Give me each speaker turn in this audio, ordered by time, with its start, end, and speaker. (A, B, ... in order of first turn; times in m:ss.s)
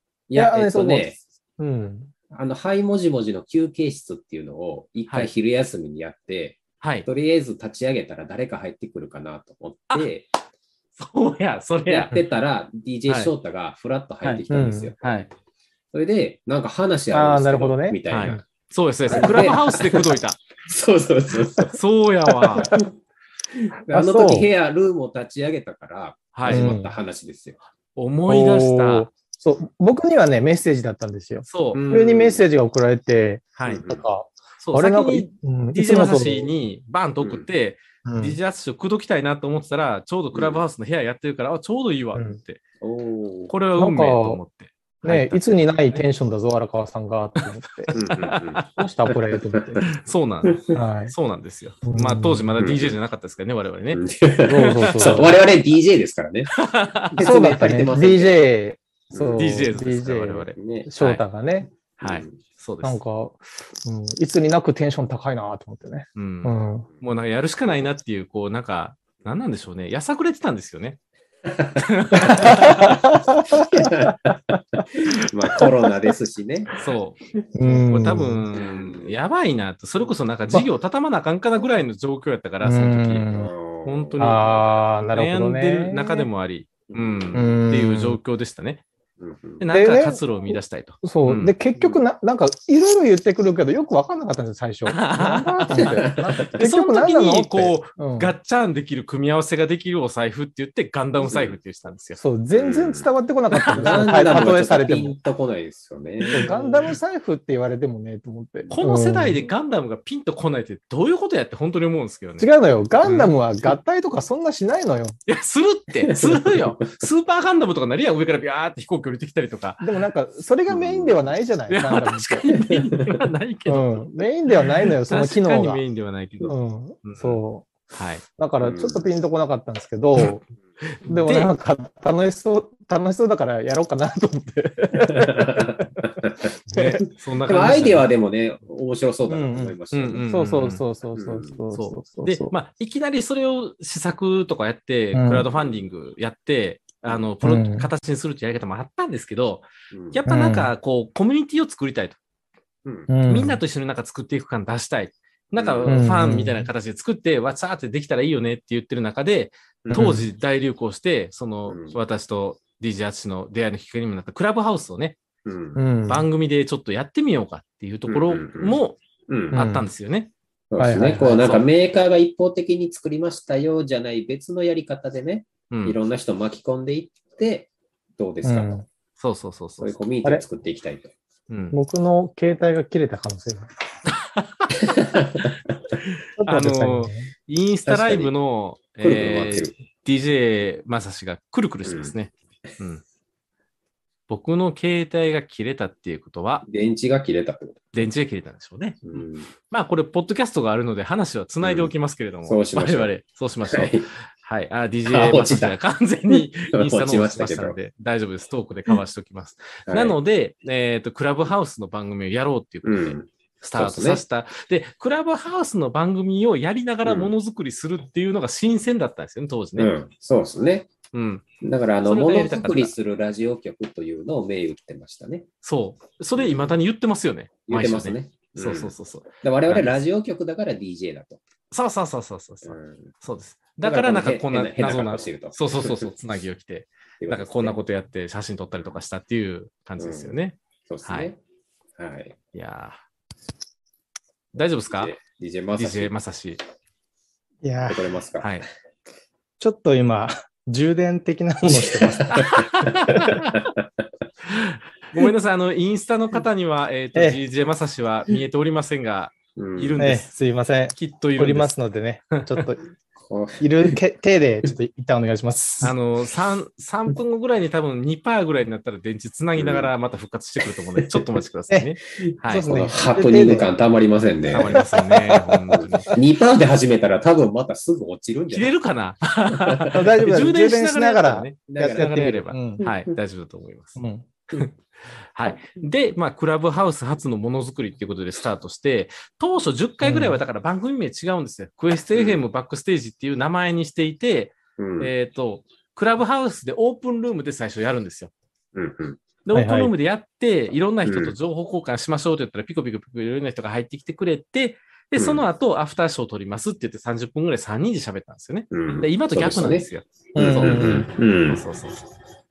0:00.3-0:01.2 A
0:00.3-0:02.1 B
0:02.3-0:10.3 A
0:06.8-0:07.1 C
0:11.0-0:12.2 C
0:11.9-0:15.2 A
0:13.1-0:13.3 C
0:14.5-0:14.9 B
0:15.0-0:15.3 C
0:15.9-0:18.4 A
0:17.1-0:18.4 B
0:18.1-0:20.4 C
0:19.1-0:21.8 A
0:19.1-0:19.5 B
0:21.7-0:22.7 C
0:22.4-0:22.8 B
0:22.6-0:22.9 A
0:23.5-0:27.6 A
0:23.9-0:24.5 B
0:26.3-0:26.7 C
0:26.5-0:26.9 B
0:28.0-0:29.1 C
0:28.3-0:36.5 B
0:31.4-0:31.8 C
0:31.7-0:32.4 A
0:33.6-0:33.8 C
0:33.6-0:34.0 A
0:34.6-0:42.6 C
0:38.0-0:38.4 B
0:40.3-0:40.6 A
0:42.8-0:43.5 A
0:43.5-0:46.0 C
0:43.8-0:44.4 B
0:45.0-0:47.9 B
0:47.4-0:48.6 C
0:47.9-0:48.6 A
0:48.8-0:49.8 B
0:49.5-0:49.8 A
0:49.8-0:54.0 C
0:50.4-0:50.7 A
0:50.7-0:51.1 B
0:51.8-0:52.6 B
0:52.6-0:53.0 A
0:53.9-0:56.5 A
0:54.4-0:55.3 B
0:54.6-0:55.3 C
0:56.5-0:57.2 C
0:57.1-0:58.4 A
0:57.2-1:01.7 B
0:59.1-0:59.7 A
0:59.4-1:01.2 C
1:00.5-1:00.9 A
1:02.0-1:03.0 C
1:02.0-1:02.4 A
1:02.8-1:06.9 B
1:06.2-1:11.0 C
1:11.4-1:12.9 A
1:11.8-1:13.0 C
1:12.1-1:13.9 B
1:13.5-1:16.7 A
1:16.8-1:23.3 C
1:17.5-1:18.4 B
1:18.5-1:19.1 A
1:22.6-1:23.5 B
1:23.3-1:24.4 A
1:23.8-1:28.8 C
1:24.2-1:26.3 B
1:26.9-1:27.5 A
1:27.3-1:28.2 B
1:29.2-1:29.7 A
1:29.6-1:31.5 C
1:29.7-1:38.3 B
1:34.8-1:42.2 C
1:35.7-1:36.6 A
1:41.2-1:41.6 A
1:42.2-1:45.1 B
1:42.5-1:43.1 A
1:43.6-1:44.5 C
1:43.7-1:46.6 A
1:46.3-1:46.6 C
1:46.3-1:49.4 B
1:48.7-1:52.5 C
1:52.4-1:55.2 B
1:53.0-1:53.3 C
1:55.3-1:59.8 C
1:56.0-1:57.1 A
1:59.8-2:02.5 B
2:00.7-2:01.3 A
2:01.7-2:04.1 C
2:02.6-2:03.2 A
2:03.7-2:05.8 B
2:04.6-2:08.2 C
2:06.4-2:07.7 B
2:08.4-2:10.4 B
2:08.6-2:09.1 A
2:11.0-2:11.5 C
2:11.1-2:16.0 B
2:15.0-2:16.5 A
2:16.7-2:17.0 B
2:16.7-2:18.0 C
2:17.4-2:20.3 A
2:19.3-2:22.5 B
2:19.9-2:20.8 C
2:21.1-2:21.6 A
2:21.7-2:32.2 C
2:25.1-2:25.4 B
2:25.5-2:25.8 A
2:27.4-2:27.9 B
2:29.9-2:30.2 A
2:30.2-2:30.7 B
2:32.8-2:33.1 A
2:33.1-2:33.6 B
2:33.3-2:45.2 C
2:35.5-2:36.1 A
2:35.8-2:36.7 B
2:39.8-2:40.2 A
2:39.9-2:40.2 B
2:41.7-2:42.0 A
2:45.4-2:45.8 A
2:45.8-2:46.2 B
2:46.1-2:49.0 C
2:48.1-2:49.6 A
2:49.5-2:50.3 C
2:49.5-2:49.9 B
2:50.7-2:58.8 A
2:50.8-2:51.4 B
2:51.3-2:51.6 C
2:55.7-2:56.0 C
2:58.4-2:58.8 B
2:59.2-2:59.9 C
2:59.8-3:01.1 A
3:01.5-3:01.8 C
3:01.7-3:03.7 B
3:04.1-3:04.7 C
3:04.8-3:05.6 A
3:06.4-3:07.3 B
3:06.4-3:13.0 C
3:07.8-3:08.3 A
3:09.0-3:09.7 A
3:11.8-3:12.1 A
3:14.3-3:16.6 C
3:16.6-3:18.0 A
3:17.9-3:39.9 C
3:19.0-3:19.5 A
3:21.6-3:21.9 A
3:22.4-3:23.1 A
3:23.7-3:24.1 A
3:25.1-3:25.8 A
3:26.3-3:27.8 A
3:29.9-3:30.2 A
3:32.8-3:34.2 A
3:37.0-3:37.3 A
3:39.8-3:40.9 A
3:41.1-3:42.9 C
3:41.6-3:45.5 A
3:45.6-3:49.9 C
3:46.4-3:46.7 A
3:47.7-3:51.4 A
3:51.7-4:01.3 C
3:52.6-3:53.1 A
3:53.8-3:56.1 A
3:57.2-3:57.8 A
4:00.0-4:01.4 A
4:02.0-4:02.4 A
4:02.5-4:03.0 C
4:04.5-4:05.2 C
4:04.9-4:06.1 A
4:05.8-4:06.6 C
4:07.6-4:08.1 B
4:07.9-4:08.6 A
4:09.6-4:13.4 B
4:11.7-4:12.7 A
4:12.7-4:13.6 C
4:14.5-4:20.3 C
4:19.6-4:20.0 A
4:20.0-4:22.8 B
4:20.9-4:21.7 C
4:22.3-4:22.6 C
4:23.2-4:23.6 A
4:23.6-4:25.9 B
4:25.8-4:32.7 C
4:29.6-4:29.9 A
4:31.0-4:31.4 A
4:32.4-4:33.7 B
4:32.7-4:34.8 A
4:34.5-4:36.2 C
4:34.9-4:35.5 B
4:35.7-4:38.7 A
4:38.5-4:44.0 C
4:39.5-4:39.9 A
4:39.9-4:42.8 B
4:41.7-4:43.1 A
4:44.0-4:44.2 B
4:44.5-4:44.8 C
4:45.3-4:58.3 C
4:50.0-4:50.4 B
4:52.1-4:52.4 A
4:54.8-4:55.1 A
4:58.7-4:59.2 A
4:59.4-5:12.0 C
4:59.5-4:59.9 B
5:01.0-5:01.3 A
5:05.2-5:05.4 A
5:08.7-5:11.6 A
5:10.3-5:11.1 B